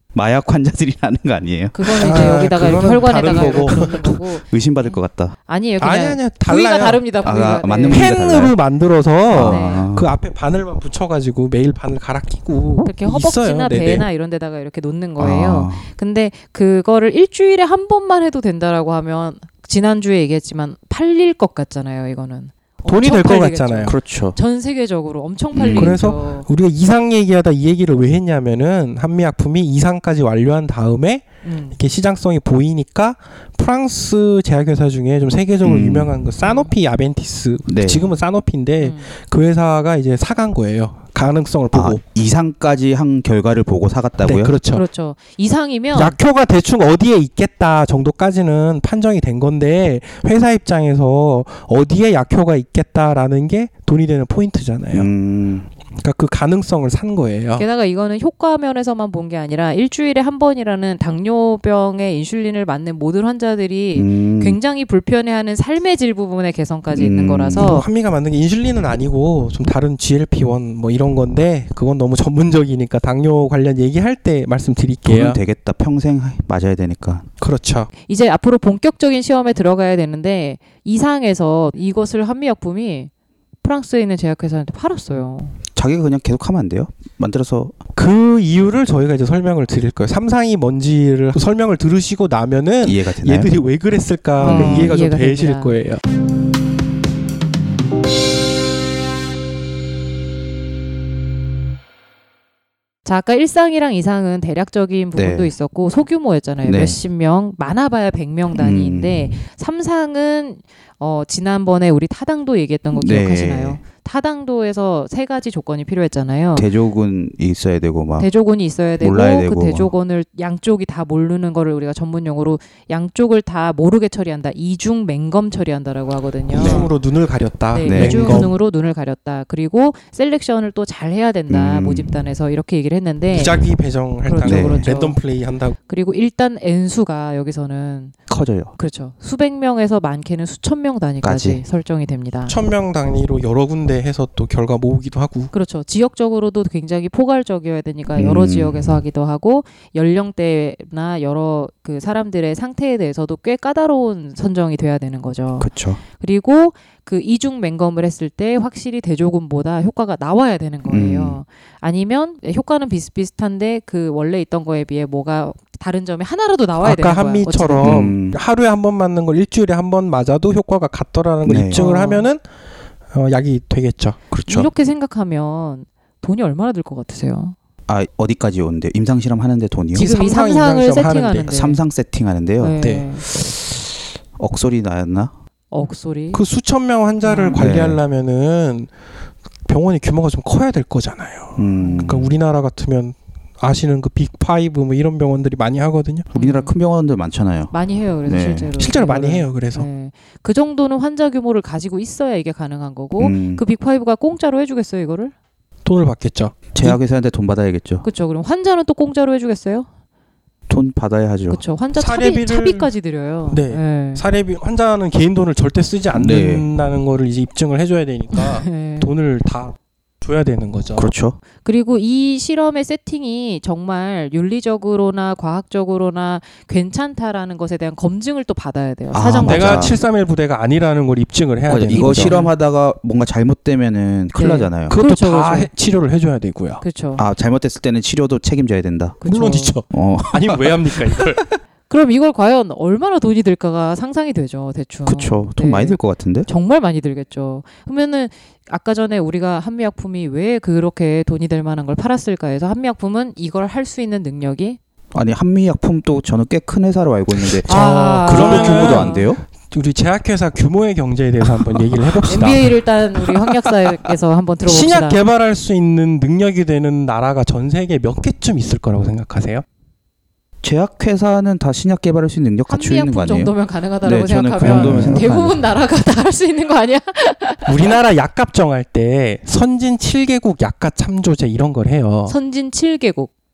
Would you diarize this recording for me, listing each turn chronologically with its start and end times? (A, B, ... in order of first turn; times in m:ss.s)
0:00.1-0:02.4 A
0:01.7-0:08.1 B
0:01.9-0:04.1 C
0:03.3-0:05.4 A
0:05.8-0:07.0 C
0:07.2-0:08.5 A
0:07.9-0:14.0 C
0:09.3-0:10.1 A
0:09.4-0:09.9 B
0:12.8-0:26.5 B
0:15.2-0:15.9 A
0:22.8-0:24.0 C
0:23.8-0:24.4 A
0:25.5-0:26.0 A
0:25.7-0:42.0 C
0:31.4-0:31.8 B
0:35.6-0:36.1 A
0:36.4-0:36.7 B
0:37.7-0:38.1 A
0:38.8-0:39.1 B
0:41.7-0:44.5 A
0:44.2-0:44.8 C
0:44.7-0:46.2 B
0:45.9-0:55.1 C
0:54.9-0:55.7 A
0:56.0-0:57.6 C
0:57.6-1:07.8 B
1:03.9-1:04.6 A
1:06.9-1:07.7 A
1:07.6-1:15.4 C
1:15.0-1:17.3 A
1:17.4-1:17.9 C
1:18.0-1:23.1 B
1:23.6-1:25.6 B
1:25.7-1:27.8 A
1:28.0-1:36.0 C
1:32.8-1:33.5 A
1:34.4-1:35.8 B
1:34.4-1:34.9 A
1:43.0-1:56.7 B
1:45.2-1:45.5 A
1:46.6-1:47.0 A
1:48.5-1:49.4 A
1:52.9-1:53.8 A
1:56.5-1:58.3 A
1:58.2-2:06.9 B
1:59.0-1:59.9 A
2:06.5-2:08.5 C
2:06.5-2:06.9 A
2:07.7-2:13.6 B
2:07.8-2:08.5 A
2:11.5-2:12.2 A
2:13.3-2:15.8 C
2:14.2-2:15.2 B
2:14.4-2:14.9 A
2:15.9-2:18.1 B
2:18.3-2:18.7 A
2:18.8-2:22.6 B
2:21.2-2:21.6 A
2:22.5-2:25.5 C
2:25.5-2:48.0 B
2:28.2-2:29.0 A
2:35.6-2:36.0 A
2:40.8-2:41.4 A
2:46.8-2:52.4 C
2:47.8-2:48.4 A
2:51.4-2:51.8 A
2:51.7-2:52.3 B
2:53.1-2:54.2 C
2:54.3-2:54.7 A
2:54.5-2:57.6 B
2:57.9-3:00.1 A
2:59.9-3:01.8 B
2:59.9-3:01.5 C
3:01.4-3:05.3 A
3:02.6-3:03.2 B
3:02.8-3:03.1 C
3:05.7-3:06.4 B
3:06.3-3:08.9 C
3:07.2-3:07.6 B
3:07.6-3:08.0 A
3:09.6-3:16.3 C
3:11.6-3:12.3 A
3:11.8-3:12.1 B
3:16.3-3:17.7 A
3:16.3-3:16.7 B
3:17.7-3:25.3 B
3:18.2-3:18.7 A
3:18.8-3:19.9 C
3:23.2-3:23.6 A
3:25.8-3:27.0 C
3:26.7-3:28.0 A
3:28.0-3:29.9 B
3:30.7-3:31.6 A
3:31.5-3:34.2 B
3:32.0-3:32.9 C
3:33.5-3:41.1 C
3:36.1-3:36.6 A
3:38.3-3:39.1 B
3:41.0-3:41.4 A
3:41.6-3:49.9 B
3:49.1-3:50.0 A
3:49.4-3:52.4 C
3:51.7-3:54.9 A
3:51.9-3:52.5 B
3:54.3-3:55.7 B
3:54.9-3:56.8 C
3:56.8-3:57.2 B
3:57.2-3:59.2 A
3:59.2-3:59.8 B
3:59.2-4:01.4 C
3:59.9-4:01.4 A
4:01.9-4:14.8 B
4:05.0-4:06.5 A
4:15.1-4:19.4 A
4:17.5-4:23.7 C
4:17.7-4:19.3 B
4:22.2-4:25.2 B
4:24.6-4:29.6 C
4:30.6-4:35.6 A
4:32.7-4:37.9 B
4:34.6-4:35.3 C
4:37.6-4:42.3 C
4:42.3-4:43.3 B